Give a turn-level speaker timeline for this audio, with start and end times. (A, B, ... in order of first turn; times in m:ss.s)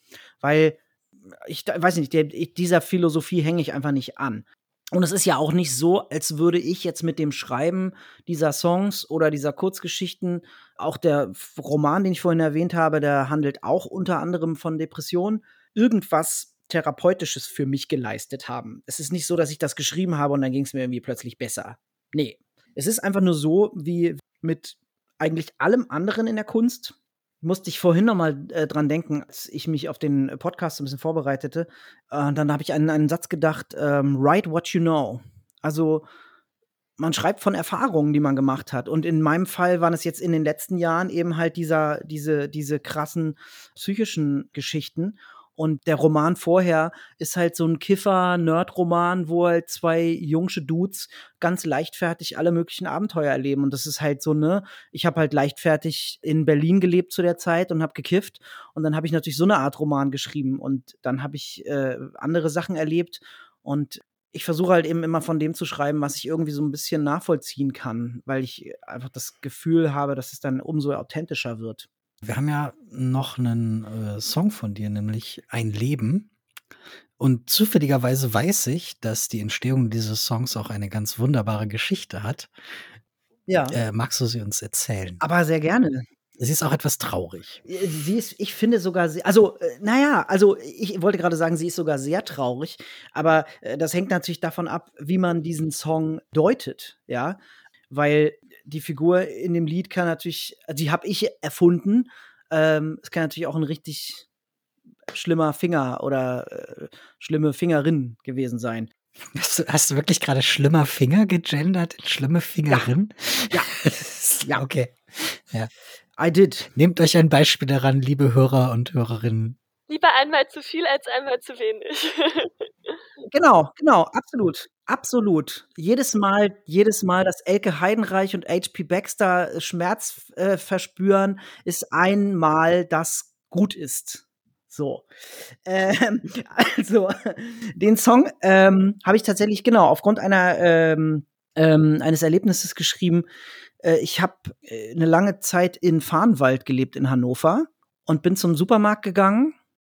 0:00.4-0:36.0 A
0:37.0-1:11.9 A
1:12.2-1:16.3 B
1:17.2-1:22.8 B
1:23.5-1:23.8 A
1:23.7-1:25.2 B
1:25.2-1:26.0 A
1:26.4-1:27.6 B
1:27.6-1:37.4 A
1:37.9-1:44.2 A
1:45.1-1:48.9 A
1:49.4-1:55.7 B
1:56.2-1:56.7 A
1:56.7-1:59.6 B
1:59.9-2:02.7 C
2:03.3-2:15.1 A
2:15.6-2:23.3 A
2:23.8-2:29.6 A